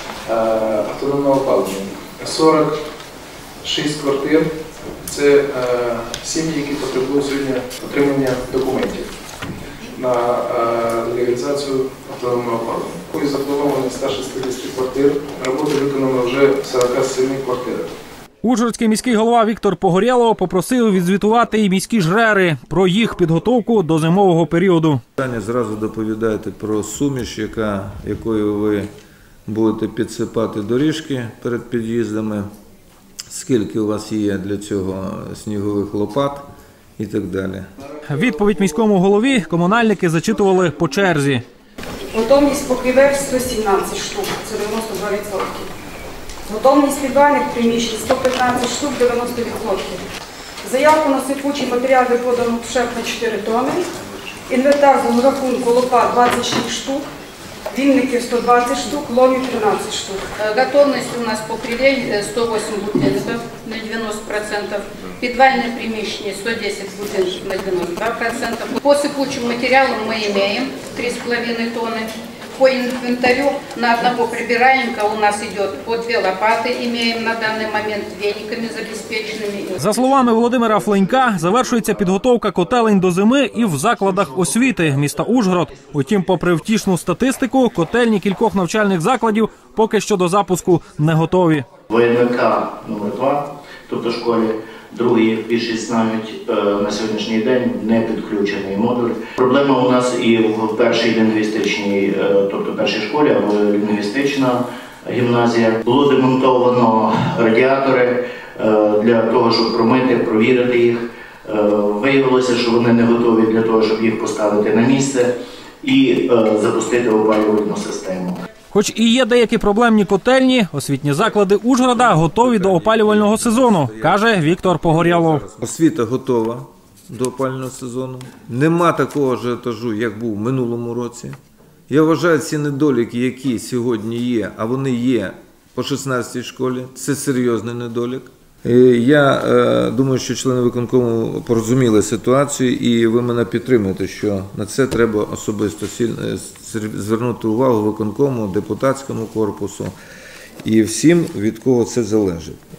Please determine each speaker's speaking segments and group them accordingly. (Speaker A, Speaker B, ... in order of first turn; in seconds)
Speaker A: 0.2-2.8, 3.6-4.5, 5.0-9.1, 9.9-17.9
Speaker B: 18.4-25.0, 38.0-41.4, 79.8-91.6, 118.7-125.4
Speaker C: 25.2-28.9, 29.4-32.5, 33.3-36.5, 37.0-37.7, 122.0-131.4, 131.9-149.9, 150.6-152.6
Speaker D: 42.1-45.7, 46.5-50.0, 50.6-53.8, 54.5-57.0, 57.7-60.2
Speaker E: 60.4-79.8
Speaker F: 91.9-115.3, 115.8-118.4